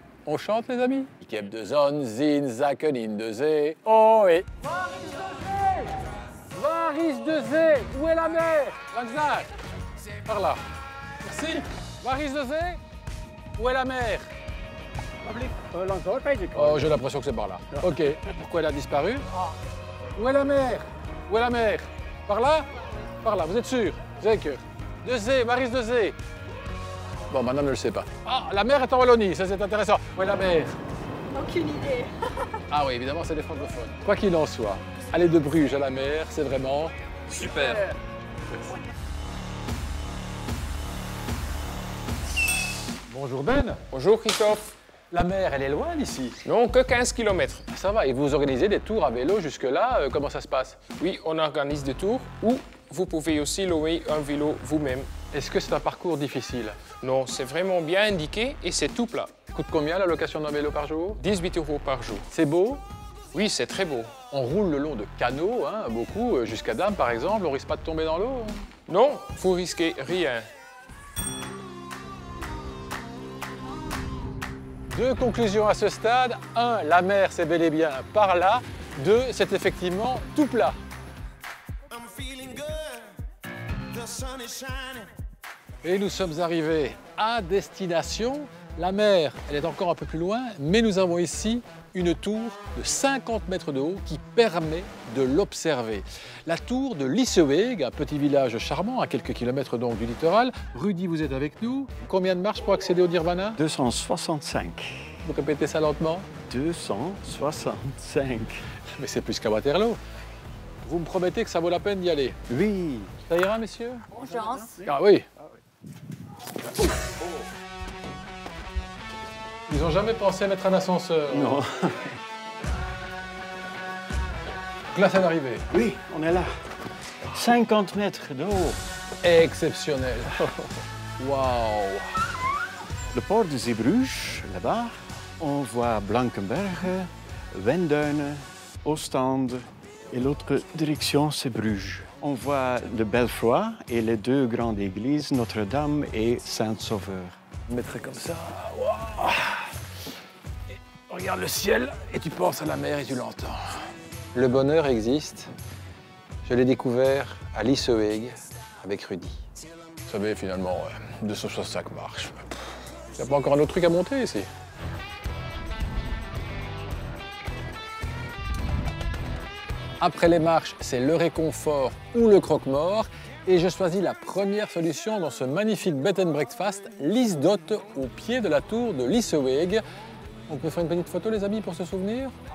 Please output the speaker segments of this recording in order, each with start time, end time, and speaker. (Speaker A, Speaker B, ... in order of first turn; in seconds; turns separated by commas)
Speaker A: 0.3-5.9, Speaker A: 6.5-9.5, Speaker A: 10.2-10.6, Speaker A: 11.2-12.8, Speaker A: 13.6-14.3, Speaker B: 15.3-16.9, Speaker A: 16.6-19.4, Speaker A: 20.2-22.7, Speaker A: 23.2-26.2, Speaker A: 27.3-30.8, Speaker C: 31.3-32.2, Speaker A: 32.7-37.9, Speaker D: 37.5-37.8, Speaker A: 43.1-43.8, Speaker D: 43.9-44.7, Speaker A: 45.1-46.4, Speaker D: 46.5-47.7, Speaker A: 47.7-50.8, Speaker D: 51.0-55.1, Speaker A: 55.3-56.8, Speaker D: 57.0-59.3, Speaker A: 59.5-61.2, Speaker D: 61.2-62.3, Speaker A: 62.3-62.8, Speaker D: 63.3-64.1, Speaker A: 64.3-68.7, Speaker D: 68.9-70.5, Speaker A: 74.9-80.8, Speaker B: 82.0-82.9, Speaker C: 82.1-83.1, Speaker B: 84.0-85.0, Speaker C: 84.1-84.9, Speaker A: 85.8-103.6, Speaker B: 103.6-105.1, Speaker A: 105.2-106.3, Speaker B: 106.5-108.7, Speaker A: 109.0-110.0, Speaker A: 110.8-112.4, Speaker B: 112.5-113.2, Speaker A: 113.3-114.1, Speaker B: 114.2-114.7, Speaker A: 114.8-115.3, Speaker A: 119.7-121.6, Speaker B: 121.3-122.2, Speaker A: 124.9-125.7, Speaker B: 125.7-126.5, Speaker B: 127.3-128.8, Speaker A: 129.2-130.6, Speaker A: 131.2-132.1, Speaker B: 133.1-147.4, Speaker A: 147.7-149.7, Speaker A: 151.1-153.6, Speaker A: 154.3-155.5, Speaker A: 156.4-159.4, Speaker A: 160.1-162.5, Speaker A: 163.2-164.5, Speaker A: 170.0-179.8, Speaker A: 180.5-182.3